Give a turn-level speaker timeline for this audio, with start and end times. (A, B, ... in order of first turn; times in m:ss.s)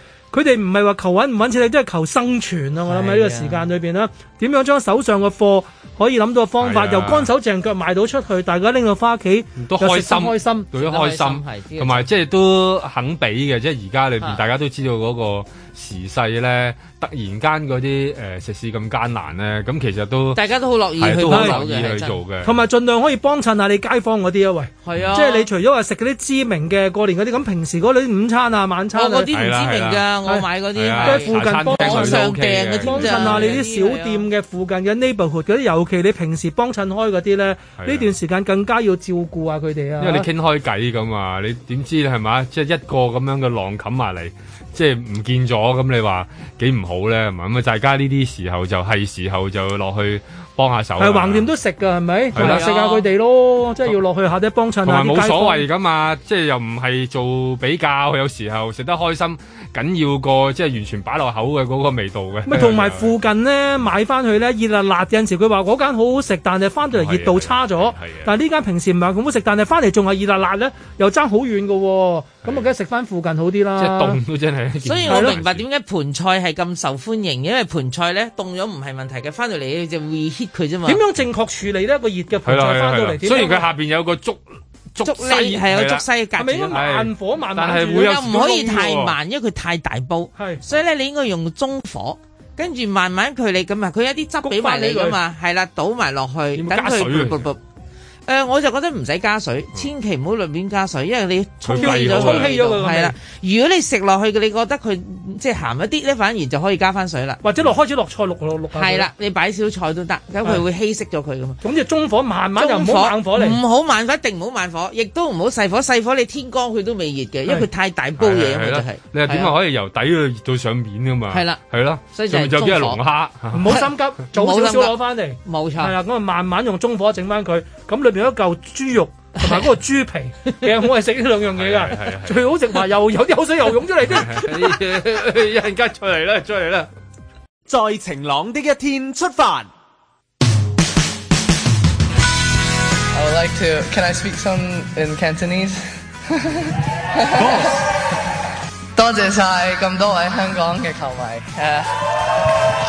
0:00.3-0:10.7 A
0:02.9-0:03.7 B
0:06.6-0:07.3 C
0:09.6-0:20.4 C
0:10.7-0:12.1 B
0:20.3-0:22.2 B
0:21.0-0:22.5 C
0:21.3-0:21.6 A
0:22.4-0:29.3 A
0:24.8-0:25.5 B
0:28.9-0:34.2 B
0:29.3-0:30.0 C
0:30.7-0:33.6 C
0:31.0-0:40.3 A
0:37.8-0:38.1 C
0:40.0-0:51.5 C
0:51.0-0:55.6 A
0:52.3-0:52.6 C
0:52.3-0:53.1 B
0:54.8-1:03.1 C
1:02.5-1:14.2 A
1:06.9-1:08.3 C
1:13.8-1:15.6 C
1:14.8-1:21.0 B
1:15.1-1:15.4 A
1:20.8-1:23.7 A
1:22.4-1:26.0 C
1:25.0-1:26.8 B
1:26.4-1:28.4 A
1:26.7-1:29.1 C
1:27.9-1:37.6 B
1:30.4-1:30.6 A
1:34.4-1:35.2 A
1:36.6-1:37.4 C
1:38.3-1:47.4 B
1:41.6-1:42.5 C
1:41.8-1:43.1 A
1:47.4-1:49.1 A
1:48.7-1:51.6 B
1:51.6-1:53.6 A
1:52.6-1:59.5 B
1:58.2-2:03.7 C
2:01.3-2:03.0 B
2:03.5-2:14.8 A
2:03.7-2:05.9 B
2:11.5-2:12.4 C
2:14.1-2:16.9 C
2:17.7-2:19.6 D
2:23.1-2:25.8 E
2:27.1-2:27.7 E
2:28.9-2:31.9 E